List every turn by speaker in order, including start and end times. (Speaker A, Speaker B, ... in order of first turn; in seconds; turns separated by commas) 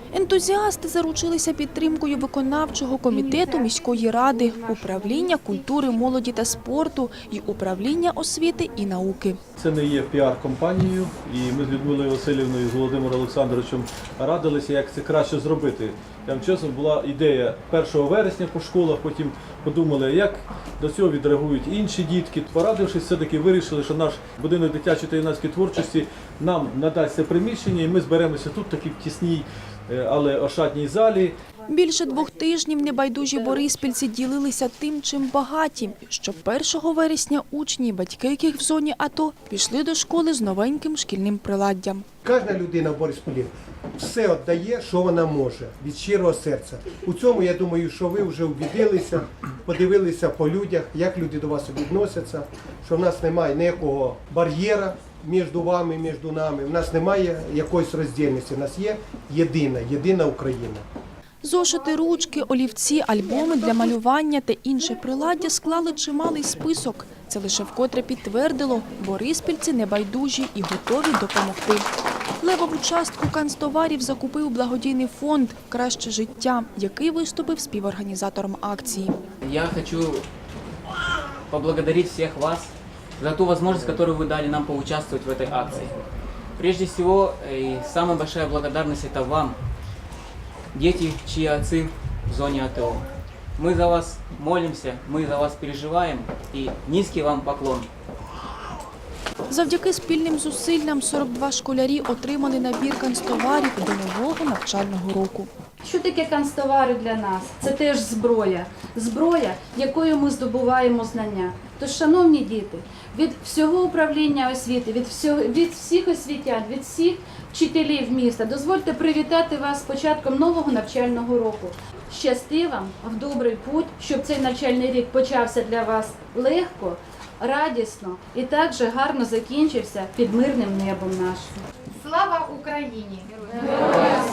Speaker A: 0.1-9.4, Speaker B: 9.6-31.4, Speaker A: 31.7-42.1, Speaker C: 42.2-60.9, Speaker A: 61.4-71.9, Speaker A: 72.4-79.2, Speaker D: 79.4-80.3, Speaker D: 81.5-86.0, Speaker D: 86.6-89.6, Speaker D: 90.7-93.1, Speaker D: 93.6-97.9, Speaker A: 99.5-105.5, Speaker E: 105.8-133.2